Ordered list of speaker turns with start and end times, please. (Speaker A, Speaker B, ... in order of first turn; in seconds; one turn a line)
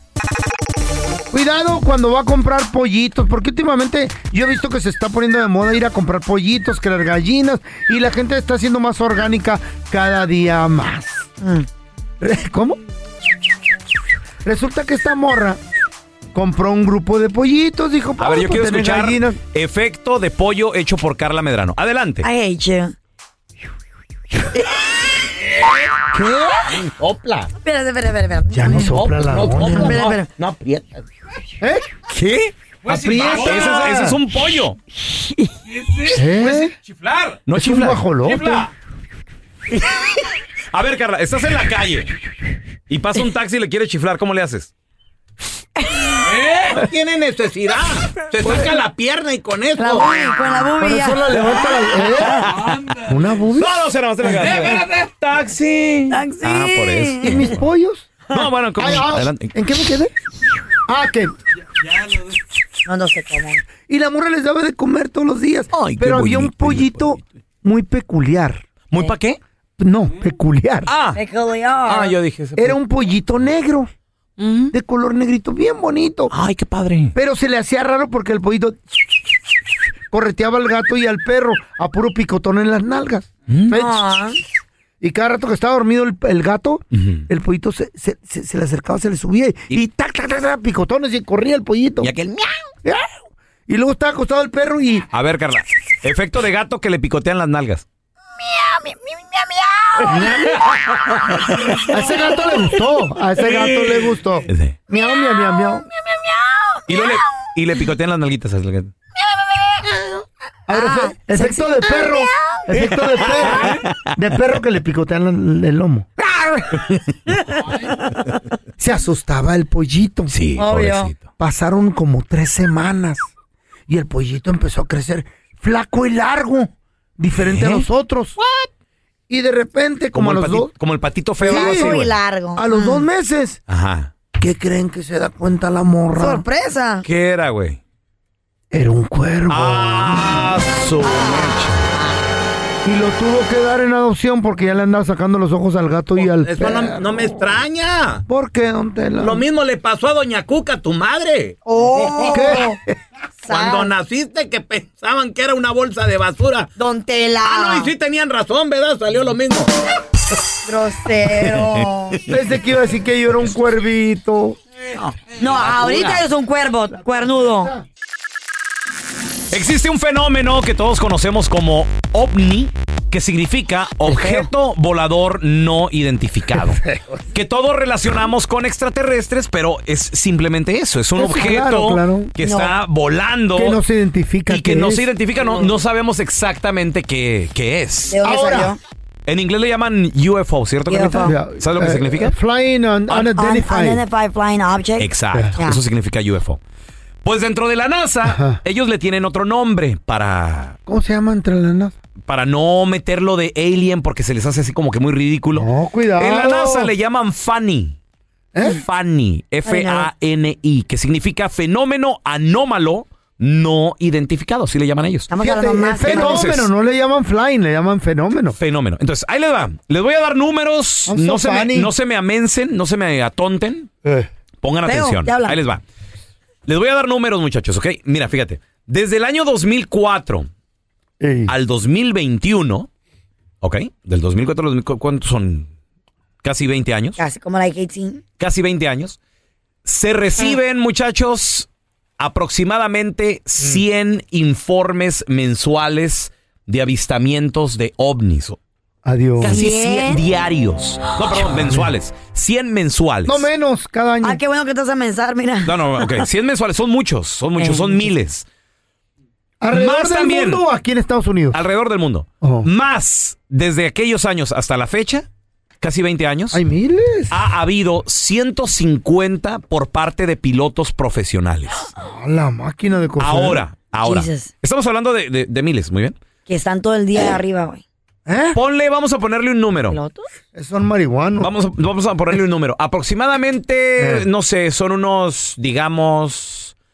Speaker A: 1.3-11.3
Speaker B: 11.4-11.7
Speaker A: 12.2-12.8
Speaker A: 14.4-15.6
Speaker A: 16.3-19.4
Speaker C: 18.2-22.3
Speaker B: 22.2-22.9
Speaker A: 26.1-26.8
Speaker D: 26.9-27.5
Speaker B: 27.6-28.9
Speaker A: 28.5-30.1
Speaker D: 28.8-31.1
Speaker B: 29.6-30.3
Speaker A: 31.6-32.2
Speaker D: 32.9-33.9
Speaker A: 32.9-34.2
Speaker C: 33.4-34.8
Speaker B: 35.0-35.5
Speaker D: 35.7-37.4
Speaker A: 36.1-36.8
Speaker C: 37.5-38.1
Speaker A: 37.5-38.7
Speaker D: 38.3-38.7
Speaker C: 40.7-42.1
Speaker C: 42.9-44.7
Speaker B: 45.8-46.2
Speaker D: 46.2-50.1
Speaker A: 48.4-48.7
Speaker B: 49.8-51.5
Speaker A: 50.8-52.5
Speaker D: 52.6-53.0
Speaker A: 53.1-54.8
Speaker C: 53.6-57.6
Speaker D: 54.4-55.1
Speaker B: 56.1-57.4
Speaker A: 57.2-58.2
Speaker C: 58.3-59.5
Speaker A: 58.8-60.1
Speaker A: 60.9-61.3
Speaker B: 62.9-63.6
Speaker A: 63.9-68.7
Speaker C: 65.7-67.2
Speaker C: 68.9-69.4
Speaker A: 69.8-70.9
Speaker C: 70.9-71.2
Speaker B: 71.2-72.1
Speaker C: 71.8-72.8
Speaker A: 72.6-73.9
Speaker C: 74.4-74.7
Speaker A: 74.7-76.3
Speaker C: 76.3-77.1
Speaker A: 77.2-79.3
Speaker A: 80.1-84.1
Speaker C: 83.5-83.8
Speaker B: 83.7-84.4
Speaker A: 85.0-92.1
Speaker C: 86.9-87.3
Speaker C: 92.0-92.7
Speaker A: 92.8-93.2
Speaker A: 93.7-95.1
Speaker C: 95.1-97.8
Speaker B: 98.4-100.3
Speaker A: 100.1-100.6
Speaker A: 101.9-105.9
Speaker B: 101.9-102.6
Speaker C: 104.5-104.8
Speaker B: 105.0-107.2
Speaker C: 106.9-108.9
Speaker B: 109.2-110.2
Speaker A: 110.7-116.1
Speaker B: 110.7-112.9
Speaker C: 113.5-114.1
Speaker C: 116.7-117.3
Speaker A: 118.8-120.4
Speaker C: 120.3-121.2
Speaker B: 120.6-121.2
Speaker A: 121.4-123.3
Speaker A: 123.9-128.4
Speaker C: 127.4-127.9
Speaker A: 129.3-130.7
Speaker C: 130.1-132.2
Speaker A: 131.4-132.0
Speaker B: 131.4-133.1
Speaker A: 132.6-133.6
Speaker C: 133.7-134.1
Speaker A: 134.4-136.4
Speaker B: 136.2-137.1
Speaker C: 137.0-137.8
Speaker A: 138.7-140.5
Speaker C: 139.5-141.9
Speaker B: 141.0-142.2
Speaker A: 142.8-147.4
Speaker D: 146.2-148.2
Speaker A: 148.3-149.4
Speaker D: 149.2-152.3
Speaker B: 151.7-152.8
Speaker A: 152.3-152.9
Speaker B: 153.4-153.9
Speaker D: 153.5-156.7
Speaker B: 156.8-157.9
Speaker D: 157.4-159.7
Speaker B: 160.7-162.2
Speaker C: 161.4-162.2
Speaker A: 162.3-164.6
Speaker D: 165.0-166.1
Speaker B: 165.4-167.7
Speaker C: 165.5-166.2
Speaker A: 167.0-167.8
Speaker C: 169.5-176.8
Speaker B: 174.1-174.5
Speaker A: 176.5-177.2
Speaker C: 177.3-183.8
Speaker A: 181.2-182.3
Speaker B: 182.4-182.8
Speaker A: 183.6-185.1
Speaker C: 184.5-188.2
Speaker B: 188.1-188.8
Speaker A: 188.2-188.8
Speaker C: 189.3-192.3
Speaker B: 190.9-191.4
Speaker A: 191.2-194.0
Speaker B: 193.1-195.8
Speaker C: 195.0-196.6
Speaker C: 197.2-200.8
Speaker A: 198.2-198.6
Speaker A: 200.9-201.9
Speaker C: 202.3-208.0
Speaker A: 205.5-206.9
Speaker A: 208.5-208.8
Speaker C: 208.6-215.3
Speaker B: 209.6-210.1
Speaker B: 215.3-216.5
Speaker A: 215.4-218.6
Speaker C: 216.0-216.7
Speaker C: 218.6-223.9
Speaker A: 221.1-221.9
Speaker A: 224.0-224.3
Speaker C: 224.6-225.8
Speaker B: 224.8-225.6
Speaker C: 226.7-230.5
Speaker A: 231.2-231.5
Speaker C: 231.5-232.9
Speaker C: 233.6-235.7
Speaker C: 236.4-237.2
Speaker B: 237.2-238.2
Speaker C: 238.4-239.2
Speaker C: 239.8-241.7
Speaker C: 242.2-248.6
Speaker A: 249.1-249.6
Speaker C: 249.4-253.5
Speaker B: 249.4-250.2
Speaker A: 251.5-251.9
Speaker A: 253.3-254.4
Speaker B: 254.2-256.2
Speaker C: 255.6-258.5
Speaker B: 257.6-258.1
Speaker A: 259.6-261.6
Speaker C: 259.7-260.6
Speaker C: 261.5-265.3
Speaker A: 262.4-262.7
Speaker C: 265.8-266.6
Speaker A: 266.5-267.4
Speaker C: 267.3-271.9
Speaker A: 272.0-273.6
Speaker C: 273.2-276.2
Speaker B: 274.0-274.5
Speaker B: 276.5-277.8
Speaker A: 278.3-278.6
Speaker C: 278.5-280.0
Speaker B: 279.9-280.3
Speaker A: 280.5-281.5
Speaker C: 281.4-286.7
Speaker A: 284.0-284.3